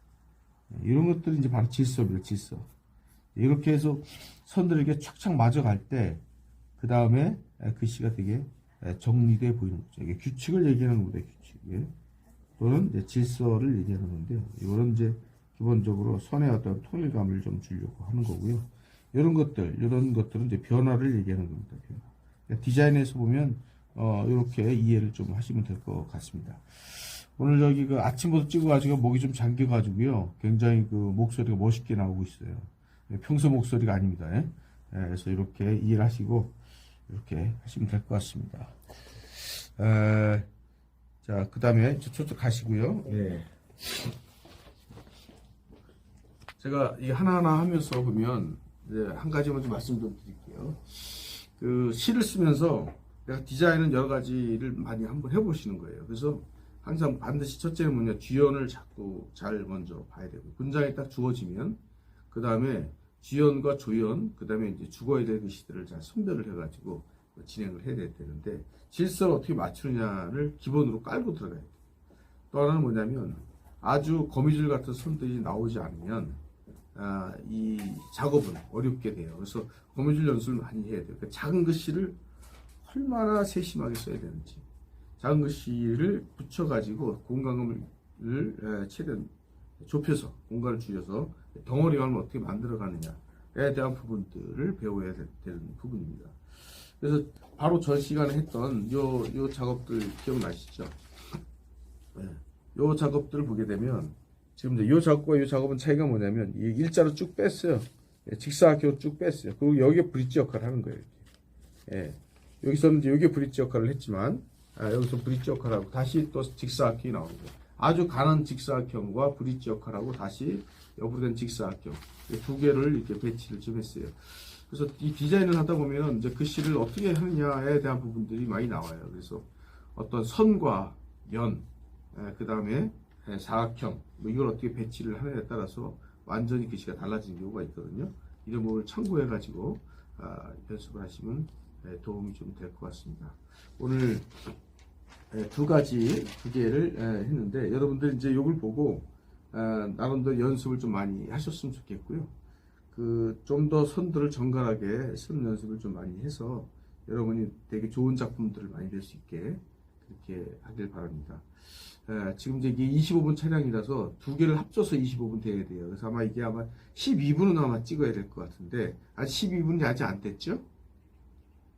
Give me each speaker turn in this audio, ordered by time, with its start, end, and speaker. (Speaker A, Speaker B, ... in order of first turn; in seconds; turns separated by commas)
Speaker A: 0.7-2.7, Speaker A: 3.3-6.2, Speaker A: 6.8-11.9, Speaker A: 12.6-36.5, Speaker A: 37.1-38.7, Speaker A: 39.3-40.5, Speaker A: 41.2-44.1, Speaker A: 46.6-61.8, Speaker A: 62.3-71.7, Speaker A: 72.5-76.4, Speaker A: 76.9-82.2, Speaker A: 82.8-84.6, Speaker A: 85.2-101.0, Speaker A: 102.1-111.2, Speaker A: 111.9-144.5, Speaker A: 145.3-152.3, Speaker A: 152.9-170.6